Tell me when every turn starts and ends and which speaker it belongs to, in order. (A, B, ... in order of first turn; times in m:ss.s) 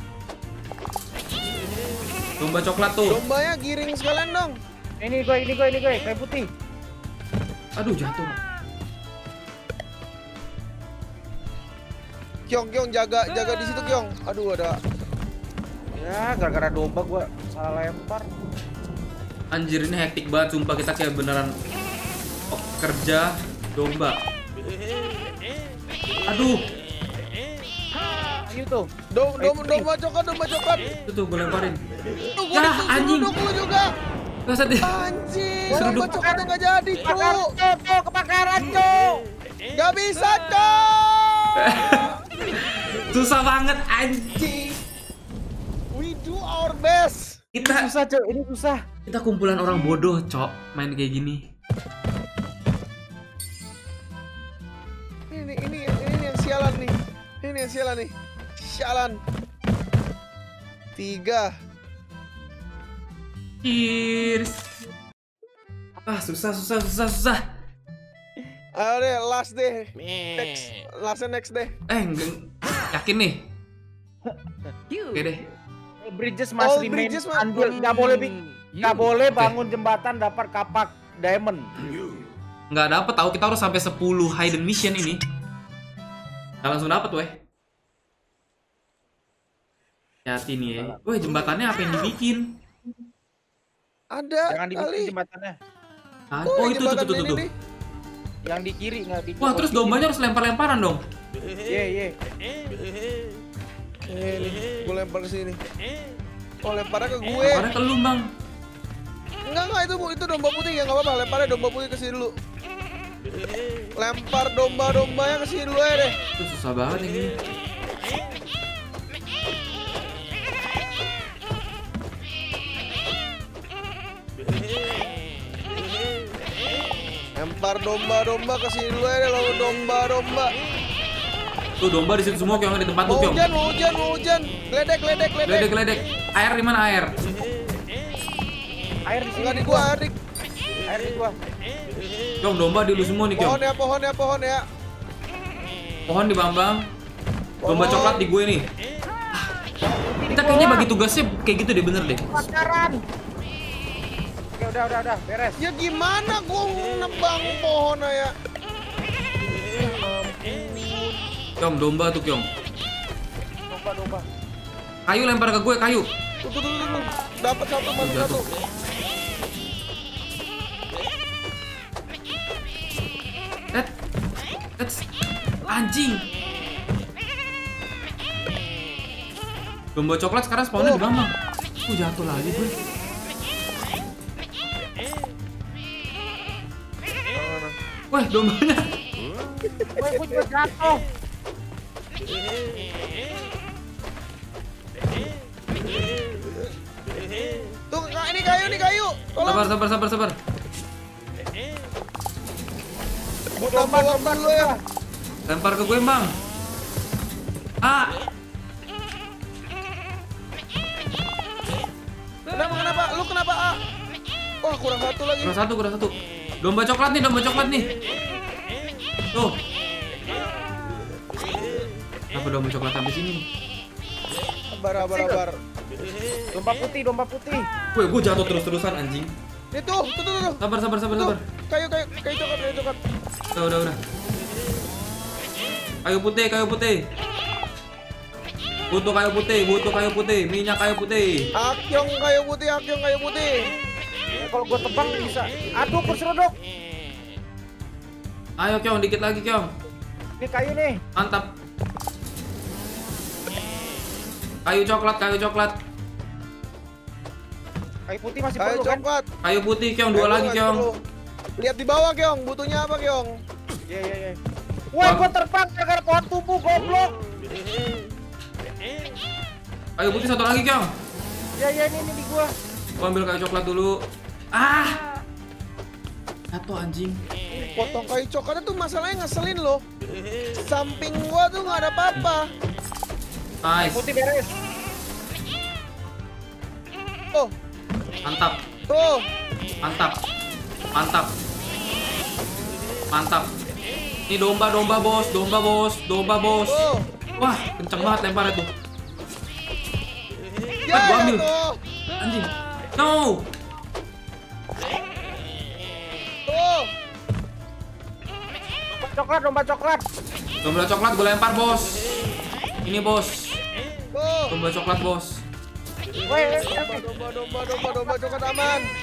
0:02.4-0:03.2 A
0:03.0-0:04.5 B
0:05.0-0:06.5 C
0:07.8-0:08.4 A
0:12.5-0:14.8 B
0:16.0-0:18.2 C
0:19.5-0:21.5 A
0:22.5-0:24.2 A
0:26.2-0:26.6 A
0:28.4-0:28.9 C
0:29.1-0:30.8 B
0:29.4-0:29.9 C
0:31.1-0:31.8 A
0:32.2-0:33.9 B
0:32.5-0:33.4 A
0:34.4-0:34.9 A
0:34.8-0:37.5 B
0:35.7-0:36.4 C
0:35.8-0:36.1 A
0:37.0-0:39.2 C
0:39.7-0:42.0 B
0:41.6-0:44.4 A
0:44.4-0:44.7 B
0:45.9-0:47.4 B
0:47.5-0:47.9 A
0:47.6-0:48.8 C
0:49.0-0:51.4 A
0:55.3-0:59.2 B
1:01.0-1:01.5 B
1:03.6-1:04.6 A
1:06.0-1:07.4 A
1:08.8-1:11.7 B
1:11.9-1:13.4 A
1:14.2-1:14.7 C
1:15.1-1:15.4 A
1:16.0-1:21.7 C
1:16.6-1:18.6 B
1:22.7-1:25.2 A
1:26.6-1:27.3 A
1:30.2-1:32.4 A
1:34.1-1:35.1 B
1:34.5-1:35.5 C
1:36.3-1:37.4 A
1:36.4-1:37.5 B
1:38.5-1:40.0 C
1:39.4-1:41.0 A
1:41.7-1:42.1 C
1:44.1-1:45.6 B
1:46.6-1:47.6 B
1:47.4-1:48.2 A
1:49.4-1:52.3 B
1:54.0-1:56.2 B
1:56.4-1:57.4 A
2:07.4-2:10.5 B
2:11.8-2:13.4 A
2:12.3-2:12.7 C
2:13.1-2:15.7 B
2:15.4-2:17.1 A
2:19.1-2:19.9 C
2:19.3-2:20.1 B
2:20.9-2:21.3 C
2:22.4-2:23.6 A
2:23.4-2:24.6 B
2:26.1-2:26.8 A
2:27.6-2:28.3 B
2:27.6-2:28.6 A
2:29.8-2:30.9 C
2:30.3-2:32.4 A
2:32.3-2:33.0 C
2:34.6-2:35.6 C
2:35.6-2:38.3 B
2:39.8-2:41.2 B
2:41.6-2:42.4 A
2:43.6-2:44.2 C
2:45.1-2:46.1 A
2:46.4-2:48.4 B
2:48.0-2:48.4 A
2:54.8-2:55.0 A
2:55.7-2:56.2 A
2:59.9-3:01.3 A
3:00.8-3:01.0 B
3:01.9-3:02.7 A
3:07.3-3:07.8 B
3:08.1-3:08.9 A
3:09.6-3:10.4 B
3:10.0-3:11.0 C
3:17.9-3:19.7 B
3:19.4-3:20.4 A
3:23.6-3:24.7 B
3:23.6-3:24.8 C
3:25.5-3:26.3 A
3:27.8-3:28.2 A
3:32.5-3:33.8 B
3:34.6-3:35.6 B
3:35.4-3:37.9 A
3:42.3-3:43.4 A
3:44.7-3:45.6 B
3:45.0-3:45.4 C
3:46.5-3:47.6 C
3:47.9-3:49.3 A
3:49.7-3:53.0 B
3:50.6-3:51.4 A
3:53.5-3:54.0 A
3:56.0-3:57.0 A
3:58.9-4:01.5 A
4:01.6-4:03.6 B
4:04.4-4:06.5 C
4:08.6-4:09.7 A
4:10.4-4:11.0 C
4:11.2-4:11.5 A
4:14.6-4:15.7 A
4:18.1-4:19.0 C
4:18.6-4:19.3 B
4:19.4-4:20.8 A
4:20.1-4:20.9 B
4:21.6-4:23.3 B
4:23.9-4:24.4 C
4:24.9-4:27.1 C
4:25.0-4:25.3 A
4:30.0-4:30.9 A
4:31.6-4:32.5 C
4:33.0-4:34.0 A
4:34.5-4:35.0 A
4:36.5-4:37.2 A
4:37.6-4:39.8 B
4:40.6-4:42.5 B
4:43.6-4:44.0 A
4:43.8-4:44.5 C
4:48.2-4:48.6 A
4:48.9-4:49.3 B
4:49.8-4:50.2 A
4:50.9-4:51.3 A
4:53.1-4:53.5 A
4:54.3-4:56.8 A
4:56.7-4:57.1 B
4:57.4-4:58.7 A
5:00.8-5:01.8 B
5:00.9-5:01.4 A
5:02.2-5:03.4 A
5:06.5-5:06.9 B
5:08.9-5:10.0 C
5:10.6-5:12.0 A
5:12.8-5:13.6 A
5:14.1-5:14.5 B
5:14.5-5:15.4 A
5:16.3-5:17.0 C
5:16.3-5:18.8 B